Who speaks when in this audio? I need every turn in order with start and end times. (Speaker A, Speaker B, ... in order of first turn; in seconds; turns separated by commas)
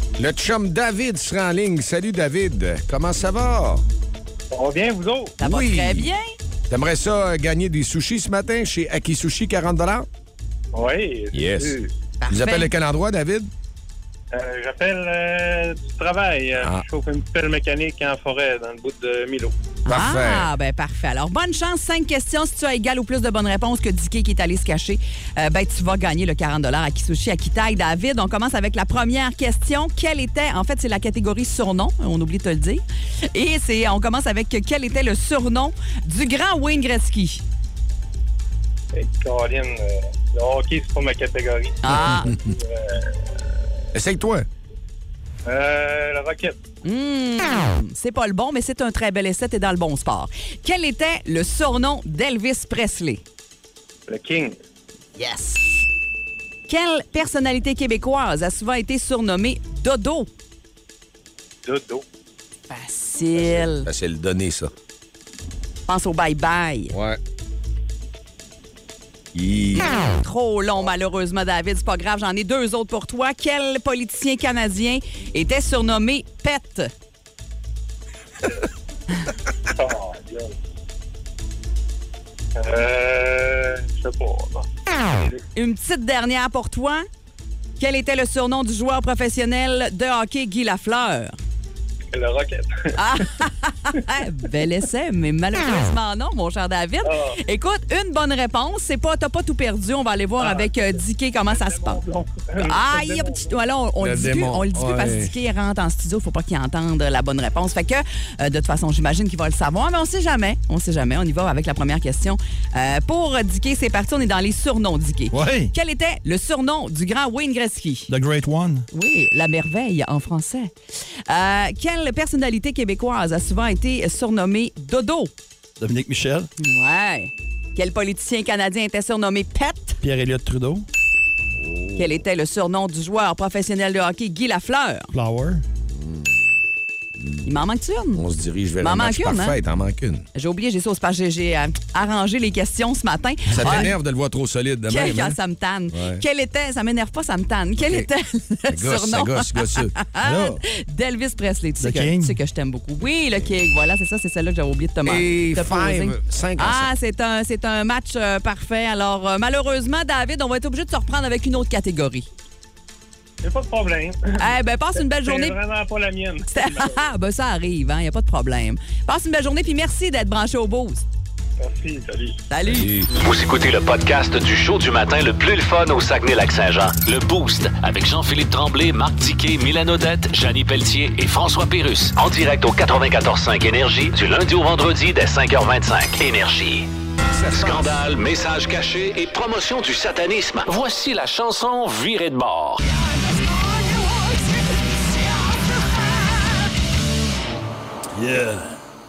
Speaker A: 0.2-3.8, Speaker B: 4.5-5.3, Speaker C: 5.4-6.3, Speaker A: 5.4-6.1, Speaker A: 6.7-10.1, Speaker B: 10.7-11.9, Speaker A: 11.3-11.8, Speaker C: 12.2-12.7, Speaker A: 12.3-13.5, Speaker B: 14.3-19.6, Speaker C: 19.9-37.4, Speaker A: 19.9-20.5, Speaker B: 38.9-43.3, Speaker C: 41.8-42.4, Speaker A: 43.9-44.5, Speaker B: 45.5-46.6, Speaker C: 46.9-53.2, Speaker B: 54.1-54.5, Speaker C: 55.2-55.8, Speaker C: 56.7-60.3, Speaker B: 61.6-62.0, Speaker C: 62.7-63.9, Speaker A: 63.3-64.7, Speaker C: 65.9-66.9, Speaker A: 66.9-67.2, Speaker A: 69.3-70.1, Speaker C: 69.8-76.9, Speaker B: 79.7-80.5, Speaker B: 82.6-85.4, Speaker C: 85.5-87.1, Speaker C: 87.8-91.4, Speaker B: 92.1-92.9, Speaker C: 93.0-102.0, Speaker B: 97.0-97.4, Speaker B: 100.4-100.7, Speaker B: 101.5-103.6, Speaker C: 102.6-118.1, Speaker A: 104.0-105.3, Speaker D: 115.3-115.7, Speaker D: 118.1-118.9, Speaker C: 118.9-120.7, Speaker C: 121.3-125.3, Speaker D: 125.8-126.5, Speaker C: 126.6-130.0, Speaker D: 130.0-130.9, Speaker A: 131.6-132.2, Speaker C: 132.0-135.1, Speaker D: 135.1-135.6, Speaker A: 135.9-136.4, Speaker A: 137.2-137.5, Speaker C: 137.4-138.2, Speaker A: 138.1-140.3, Speaker C: 138.8-139.6, Speaker C: 140.3-143.9, Speaker A: 143.5-145.4, Speaker D: 143.6-143.9, Speaker C: 144.9-162.3, Speaker A: 145.9-146.2, Speaker A: 147.8-148.1, Speaker A: 148.7-150.6, Speaker D: 151.8-152.4, Speaker A: 155.1-156.9, Speaker B: 163.4-167.1, Speaker C: 164.4-165.6, Speaker C: 166.5-171.0, Speaker B: 171.6-172.4, Speaker C: 172.5-172.9, Speaker A: 172.7-173.1, Speaker E: 173.2-186.9, Speaker A: 187.3-187.9, Speaker E: 187.5-192.8, Speaker D: 198.2-198.8